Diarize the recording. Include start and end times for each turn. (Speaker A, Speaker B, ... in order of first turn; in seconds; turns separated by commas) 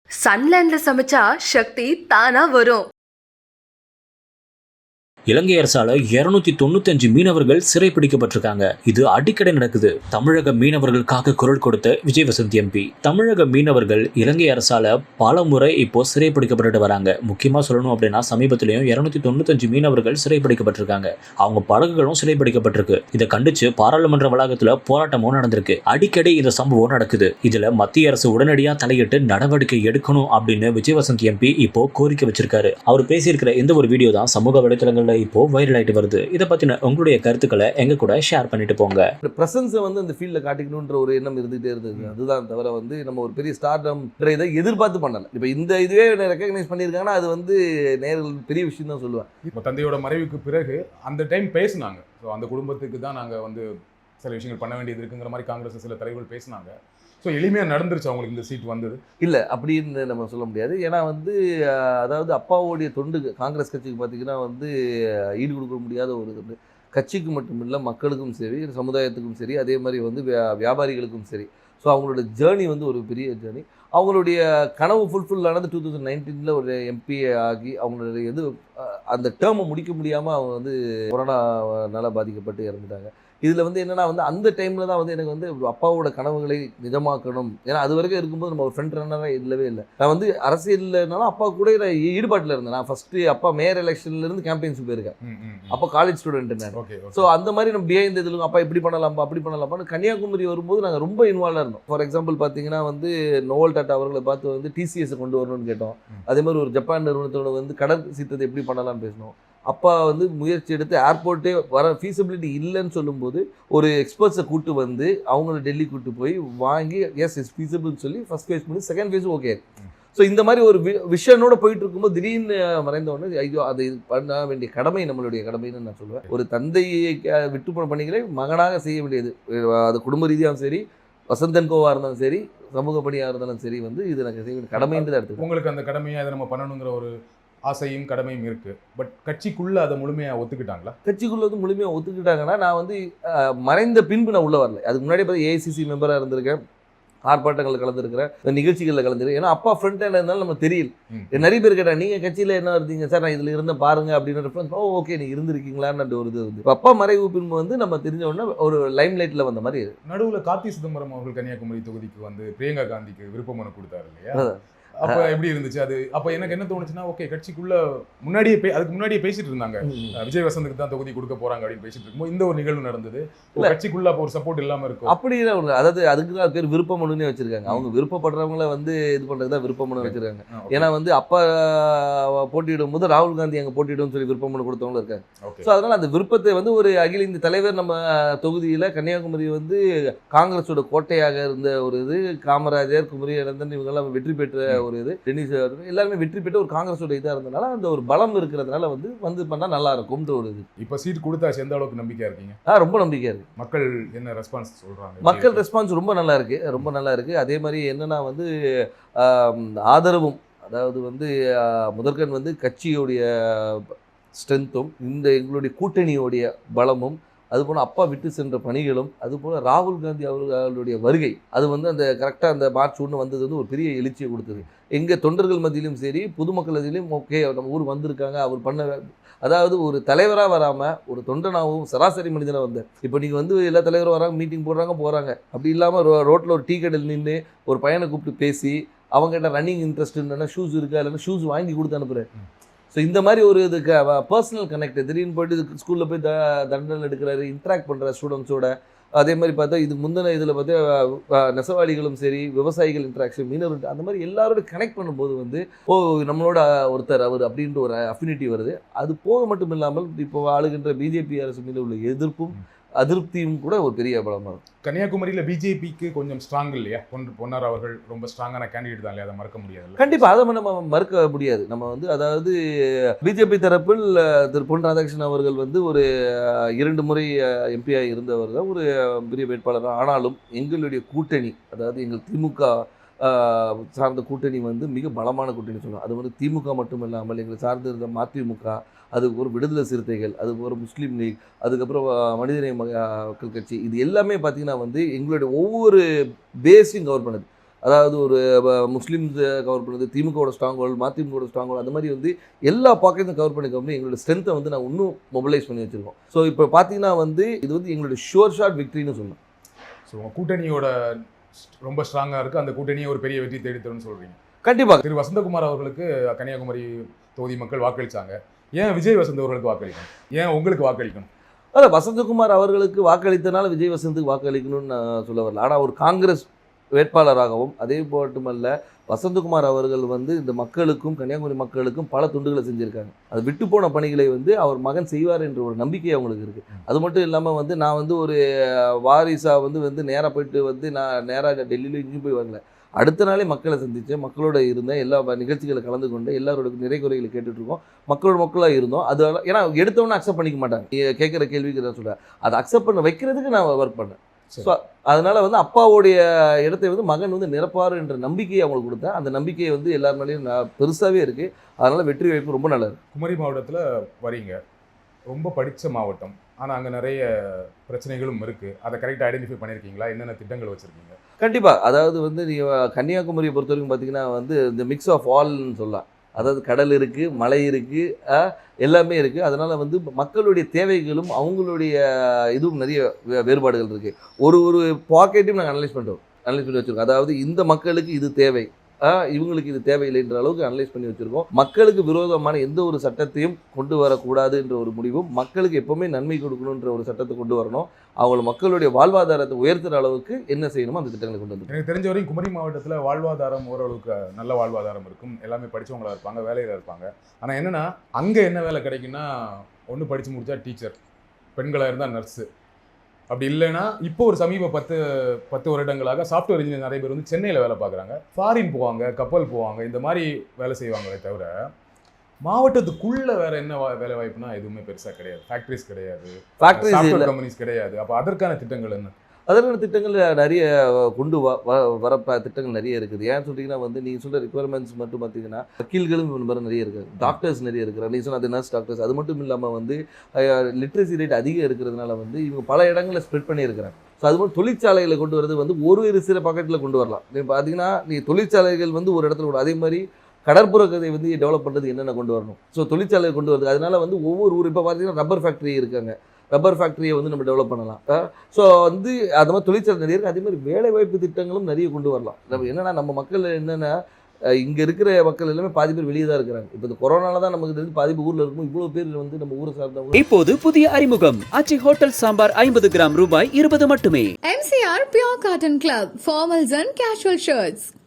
Speaker A: 0.2-2.9, Speaker B: 5.3-39.0, Speaker C: 39.2-49.3, Speaker D: 49.5-53.7, Speaker D: 54.2-59.0, Speaker C: 59.2-64.7, Speaker C: 65.4-95.2, Speaker D: 95.2-95.8, Speaker C: 95.7-119.6, Speaker D: 96.7-97.3, Speaker C: 120.1-135.4, Speaker D: 134.7-137.1, Speaker D: 137.7-141.0, Speaker C: 141.1-146.6, Speaker C: 147.3-159.9, Speaker D: 151.1-151.5, Speaker D: 160.1-175.2, Speaker C: 164.3-165.3, Speaker C: 169.9-170.2, Speaker C: 175.1-189.8, Speaker D: 180.0-180.9, Speaker D: 185.4-185.7, Speaker C: 190.3-200.7, Speaker D: 200.8-202.6, Speaker C: 202.7-203.5, Speaker D: 203.6-205.6, Speaker C: 205.2-208.5, Speaker C: 209.2-242.3, Speaker C: 242.9-264.6, Speaker D: 264.8-270.3, Speaker C: 270.0-296.0, Speaker C: 296.7-309.4, Speaker D: 310.1-310.9, Speaker D: 311.7-314.4, Speaker C: 314.6-315.0, Speaker D: 315.0-321.3, Speaker C: 321.7-363.0, Speaker D: 363.1-364.6, Speaker D: 365.3-371.2, Speaker C: 371.4-401.8, Speaker D: 401.7-409.3, Speaker D: 409.9-411.0, Speaker D: 411.6-412.5, Speaker D: 413.3-421.5, Speaker D: 422.4-429.1, Speaker C: 426.6-427.3, Speaker C: 429.5-463.9, Speaker C: 464.6-470.2, Speaker E: 470.1-474.3, Speaker F: 474.5-477.9